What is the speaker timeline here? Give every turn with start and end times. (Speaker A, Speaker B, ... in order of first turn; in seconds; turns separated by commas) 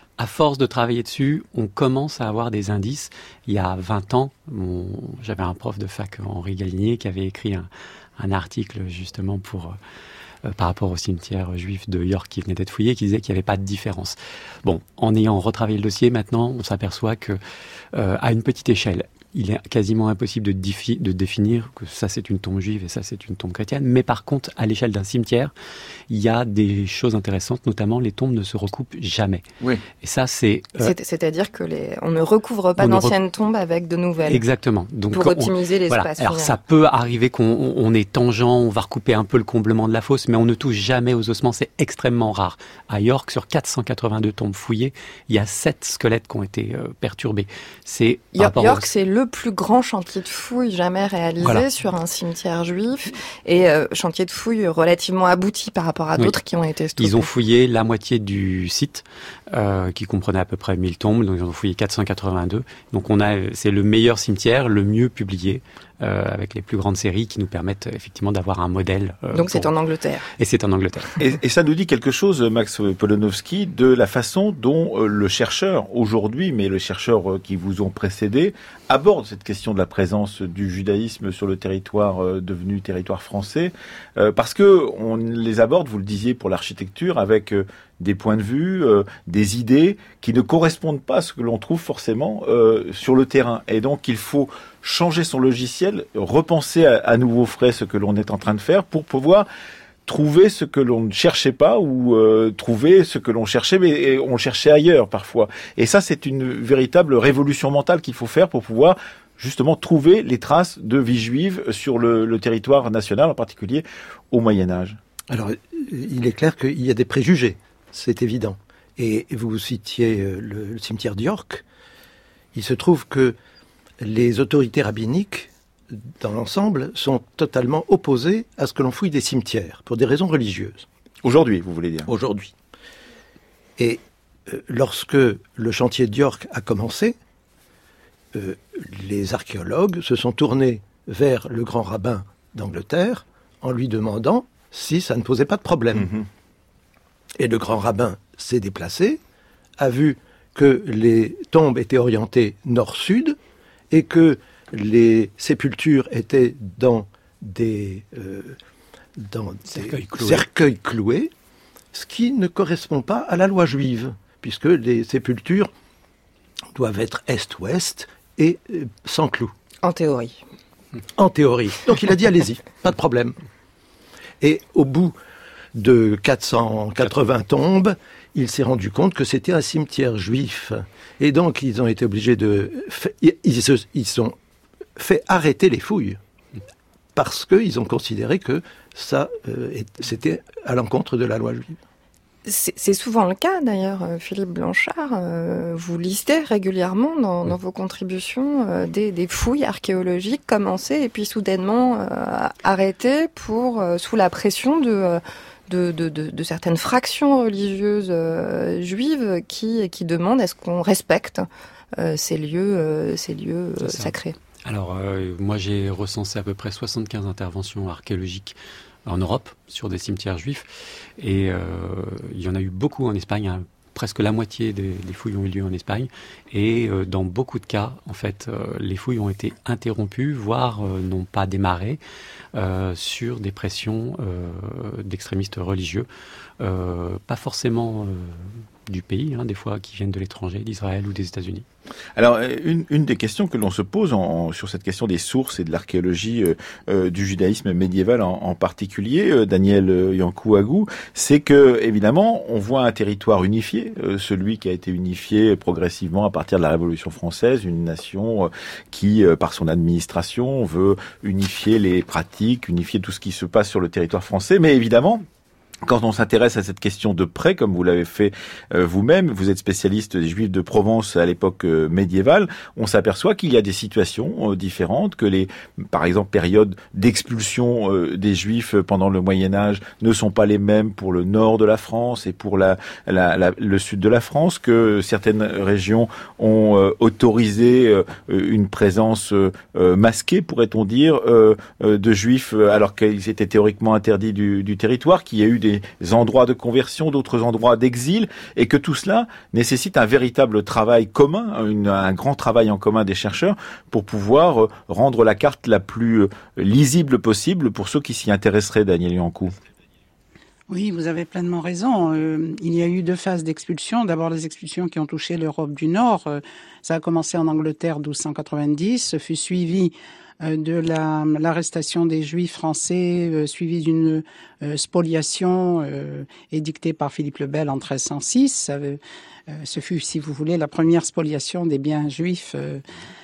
Speaker A: 0.2-9.8, Speaker A: 10.4-17.4, Speaker A: 17.9-25.5, Speaker A: 26.1-30.9, Speaker B: 30.8-34.4, Speaker A: 32.8-33.1, Speaker A: 34.3-48.9, Speaker B: 35.1-36.6, Speaker B: 48.3-57.3, Speaker A: 57.0-69.7, Speaker B: 69.3-70.3, Speaker A: 70.4-71.2, Speaker C: 71.2-99.5, Speaker C: 100.0-115.0, Speaker D: 115.3-121.6, Speaker D: 122.5-123.3, Speaker D: 124.0-130.8, Speaker C: 131.2-132.1, Speaker D: 132.1-132.5, Speaker D: 133.8-137.2, Speaker D: 138.3-146.2, Speaker D: 147.4-149.2, Speaker D: 149.8-153.4, Speaker D: 153.9-158.6, Speaker D: 159.2-161.3, Speaker A: 159.8-160.4, Speaker D: 161.9-165.7, Speaker D: 166.7-169.5, Speaker B: 169.8-170.4, Speaker D: 171.2-173.3, Speaker D: 174.4-175.1, Speaker D: 175.7-184.3, Speaker D: 185.0-186.2, Speaker D: 187.1-191.8, Speaker B: 192.4-214.3, Speaker A: 213.8-214.1, Speaker A: 214.7-232.0, Speaker A: 232.5-236.1, Speaker A: 236.6-241.7, Speaker C: 242.2-265.2, Speaker C: 265.8-309.5, Speaker E: 310.7-332.8